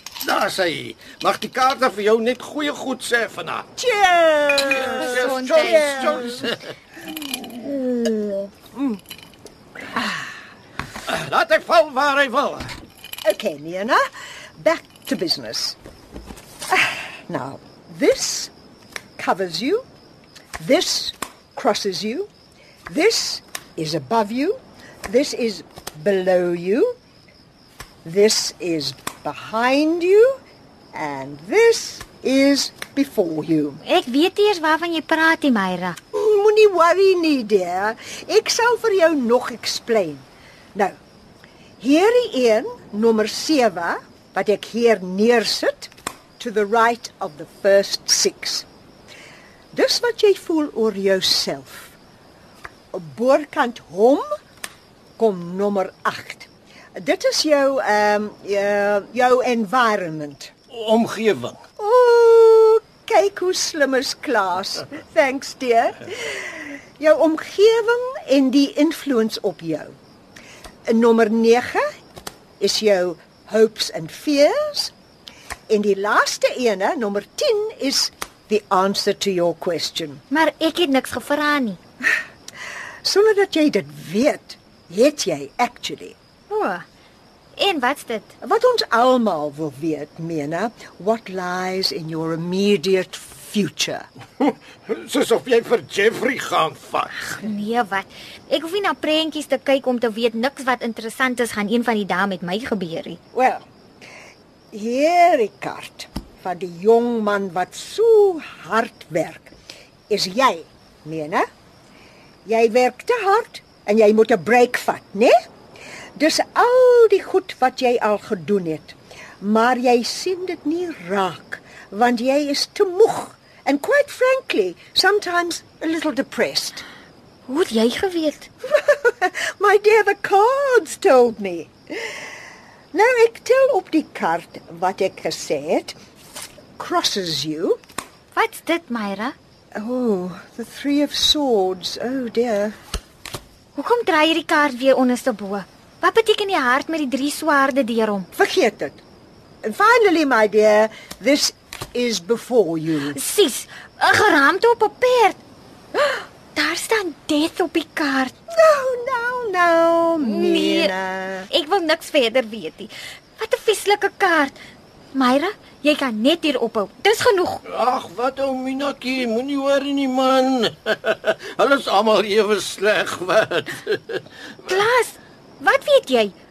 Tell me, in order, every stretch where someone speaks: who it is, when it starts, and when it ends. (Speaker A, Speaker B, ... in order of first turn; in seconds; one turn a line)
Speaker A: 0.2-3.7
Speaker B: 3.8-6.5
Speaker A: 4.7-6.7
Speaker C: 5.2-6.2
Speaker B: 8.7-9.0
Speaker A: 11.1-12.7
Speaker B: 13.2-14.0
Speaker B: 14.6-15.8
Speaker B: 16.7-18.5
Speaker B: 19.2-19.9
Speaker B: 20.6-22.3
Speaker B: 22.9-26.9
Speaker B: 28.0-30.4
Speaker B: 30.9-33.8
Speaker C: 33.8-36.0
Speaker B: 36.1-41.0
Speaker B: 41.8-48.7
Speaker B: 49.7-52.0
Speaker B: 52.9-54.2
Speaker B: 55.2-60.5
Speaker A: 60.7-61.6
Speaker B: 61.8-70.0
Speaker B: 70.9-71.8
Speaker B: 72.6-74.9
Speaker B: 75.7-80.2
Speaker C: 80.3-81.8
Speaker B: 83.0-86.2
Speaker C: 86.5-86.8
Speaker C: 87.5-88.3
Speaker B: 88.4-94.0
Speaker A: 94.4-97.1
Speaker C: 97.2-103.2
Speaker B: 103.3-103.7
Speaker B: 104.7-109.5
Speaker B: 110.1-111.5
Speaker B: 112.5-115.3
Speaker B: 116.2-126.8
Speaker C: 127.5-128.5
Speaker B: 128.7-132.2
Speaker B: 132.9-135.9
Speaker B: 136.8-137.8
Speaker C: 138.3-139.3
Speaker B: 139.7-142.8
Speaker C: 143.7-148.3
Speaker B: 148.3-149.0
Speaker B: 149.6-153.2
Speaker C: 153.1-155.4
Speaker C: 155.9-158.3
Speaker B: 158.5-161.5
Speaker C: 160.2-160.9
Speaker C: 161.5-164.6
Speaker C: 165.1-167.6
Speaker A: 167.7-174.2
Speaker C: 174.7-176.3